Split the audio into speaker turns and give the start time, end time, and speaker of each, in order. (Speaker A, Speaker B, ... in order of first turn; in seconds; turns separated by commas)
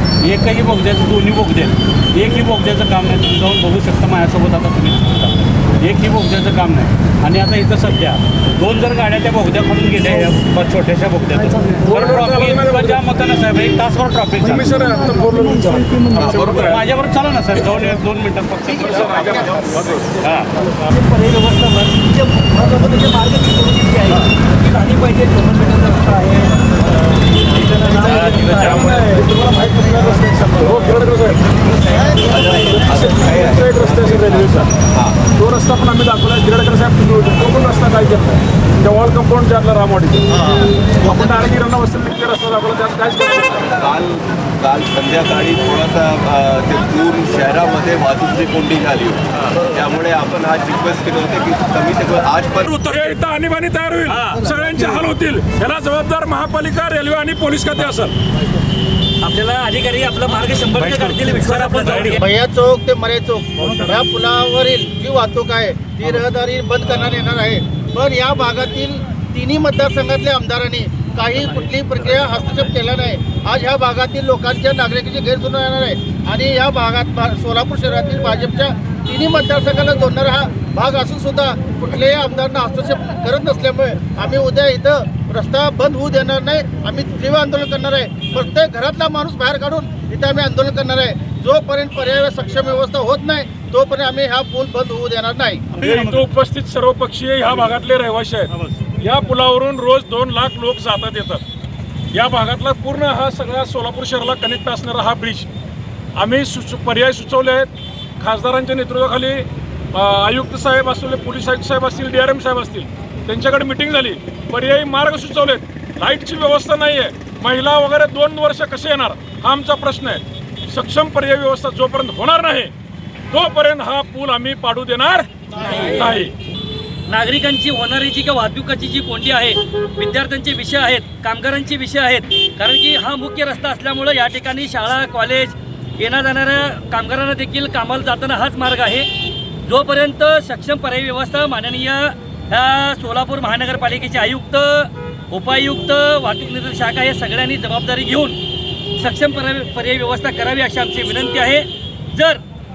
Speaker A: 0.2-14.7, Speaker B: 11.8-13.1, Speaker B: 14.5-16.8, Speaker C: 16.1-16.7, Speaker A: 16.5-19.5, Speaker C: 18.8-20.1, Speaker B: 19.0-20.8, Speaker A: 20.2-20.5, Speaker D: 20.9-29.0, Speaker B: 28.0-31.4, Speaker A: 28.2-28.7, Speaker C: 32.2-35.2, Speaker B: 33.0-34.7, Speaker B: 35.4-40.3, Speaker C: 40.3-41.2, Speaker B: 41.0-43.6, Speaker C: 43.6-52.7, Speaker B: 52.7-58.1, Speaker D: 54.1-54.5, Speaker D: 59.2-62.2, Speaker A: 60.8-62.1, Speaker B: 61.9-62.1, Speaker E: 62.2-95.7, Speaker A: 95.7-96.2, Speaker B: 95.7-101.4, Speaker B: 102.1-105.5, Speaker B: 106.1-122.7, Speaker B: 123.3-125.3, Speaker D: 125.6-126.2, Speaker B: 126.0-126.3, Speaker D: 127.1-139.1, Speaker D: 139.7-148.4, Speaker D: 149.0-152.4